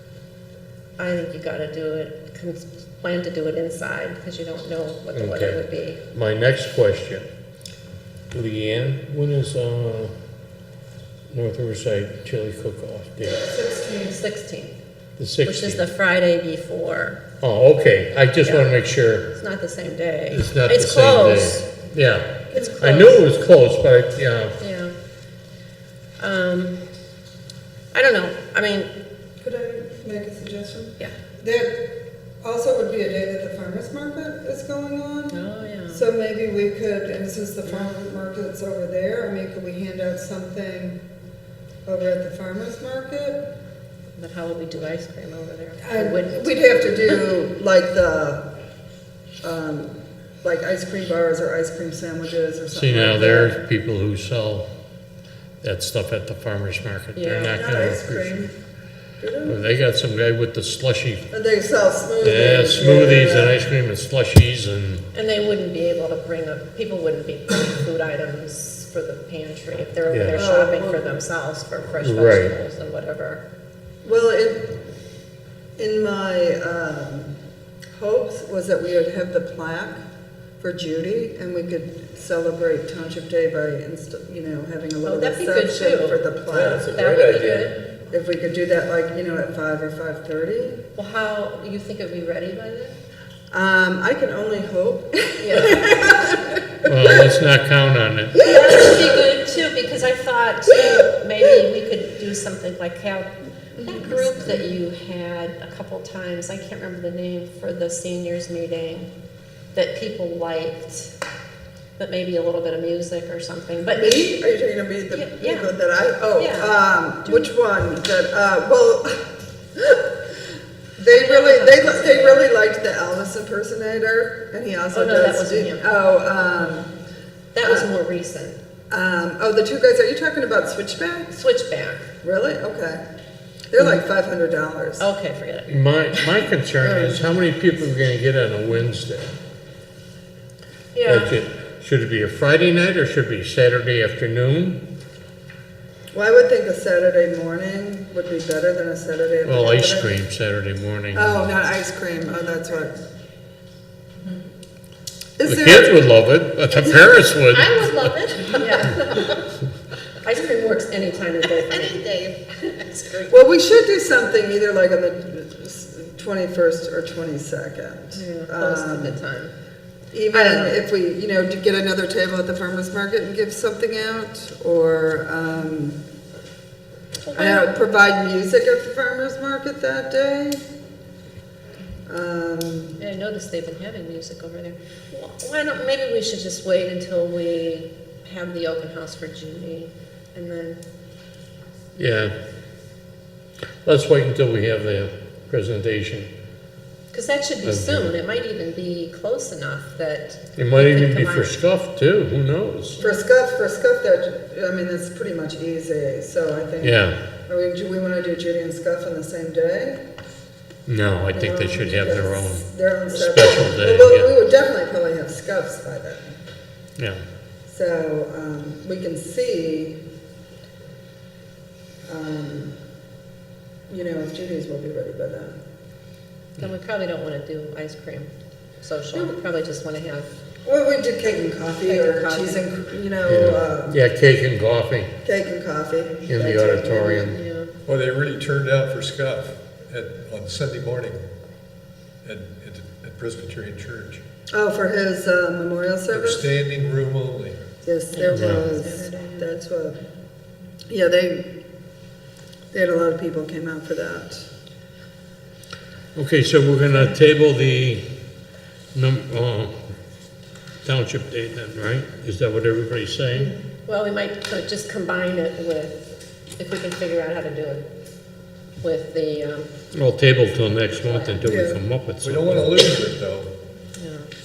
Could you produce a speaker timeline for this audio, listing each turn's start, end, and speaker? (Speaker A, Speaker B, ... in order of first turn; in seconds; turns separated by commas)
Speaker A: 1.0-6.0, Speaker B: 5.1-7.3, Speaker B: 8.3-10.1, Speaker B: 11.3-13.4, Speaker C: 13.4-14.2, Speaker A: 14.0-14.8, Speaker B: 15.2-15.8, Speaker A: 15.4-17.2, Speaker B: 17.4-19.3, Speaker A: 18.4-18.7, Speaker A: 19.3-21.7, Speaker B: 20.3-24.6, Speaker A: 22.5-23.2, Speaker C: 22.5-22.9, Speaker A: 24.6-24.9, Speaker A: 26.2-26.8, Speaker A: 27.9-28.9, Speaker C: 29.4-41.0, Speaker A: 35.3-36.0, Speaker C: 41.9-43.5, Speaker A: 44.1-46.6, Speaker C: 45.8-48.5, Speaker C: 49.4-53.6, Speaker B: 52.7-54.7, Speaker B: 55.6-58.4, Speaker A: 57.1-57.5, Speaker C: 57.5-58.5, Speaker C: 59.2-59.6, Speaker B: 59.4-61.3, Speaker C: 61.3-63.6, Speaker B: 62.2-65.0, Speaker A: 65.1-73.4, Speaker B: 70.1-70.4, Speaker C: 70.3-71.2, Speaker B: 72.0-72.5, Speaker C: 74.0-74.8, Speaker C: 75.8-77.4, Speaker C: 77.9-80.0, Speaker C: 80.6-87.0, Speaker A: 85.0-87.8, Speaker B: 86.5-87.7, Speaker C: 88.1-90.8, Speaker A: 91.0-93.0, Speaker C: 93.5-96.9, Speaker A: 95.4-95.9, Speaker B: 96.8-98.5, Speaker A: 98.4-109.1, Speaker C: 103.8-104.6, Speaker A: 109.7-111.1, Speaker A: 112.0-114.4, Speaker C: 113.9-120.2, Speaker A: 115.1-115.7, Speaker A: 116.4-117.5, Speaker C: 121.0-126.9, Speaker A: 121.1-122.5, Speaker A: 124.9-125.9, Speaker A: 127.5-128.6, Speaker C: 127.6-127.9, Speaker C: 128.9-131.3, Speaker A: 131.3-132.1, Speaker C: 132.2-133.0, Speaker C: 133.7-135.1, Speaker A: 135.0-136.3, Speaker B: 135.7-139.3, Speaker A: 136.8-137.2, Speaker A: 140.9-141.3, Speaker B: 141.0-144.8, Speaker C: 146.1-150.2, Speaker B: 149.4-151.5, Speaker C: 151.1-153.0, Speaker C: 155.4-156.1, Speaker B: 155.4-158.1, Speaker D: 157.5-159.3, Speaker A: 158.5-159.4, Speaker A: 160.2-162.9, Speaker D: 161.8-163.3, Speaker C: 163.3-169.2, Speaker A: 168.1-169.5, Speaker C: 170.1-176.0, Speaker A: 170.3-170.8, Speaker A: 177.2-177.7, Speaker C: 177.3-180.6, Speaker C: 182.1-183.0, Speaker A: 183.0-190.8, Speaker B: 191.9-192.3, Speaker B: 193.8-196.3, Speaker A: 197.1-201.5, Speaker B: 197.6-198.1, Speaker B: 200.6-203.0, Speaker C: 203.0-210.0, Speaker B: 206.8-207.2, Speaker B: 210.8-214.3, Speaker C: 211.3-216.3, Speaker C: 217.7-220.0, Speaker C: 222.1-222.8, Speaker C: 223.9-225.6, Speaker A: 226.6-230.3, Speaker C: 230.6-234.0, Speaker A: 231.8-232.6, Speaker B: 233.2-235.1, Speaker C: 235.2-237.3, Speaker B: 236.3-237.4, Speaker A: 237.2-237.7, Speaker E: 237.9-241.2, Speaker E: 242.2-244.2, Speaker C: 244.5-246.5, Speaker E: 246.1-247.6, Speaker C: 247.8-250.0, Speaker A: 248.1-249.1, Speaker B: 248.3-248.6, Speaker C: 250.9-251.6, Speaker C: 252.7-254.4, Speaker B: 256.1-258.0, Speaker B: 258.9-259.7, Speaker B: 260.8-263.5, Speaker A: 263.4-267.9, Speaker A: 268.8-269.7, Speaker B: 269.9-272.9, Speaker A: 271.0-271.4, Speaker C: 271.4-271.8, Speaker E: 272.2-273.5, Speaker A: 273.9-274.3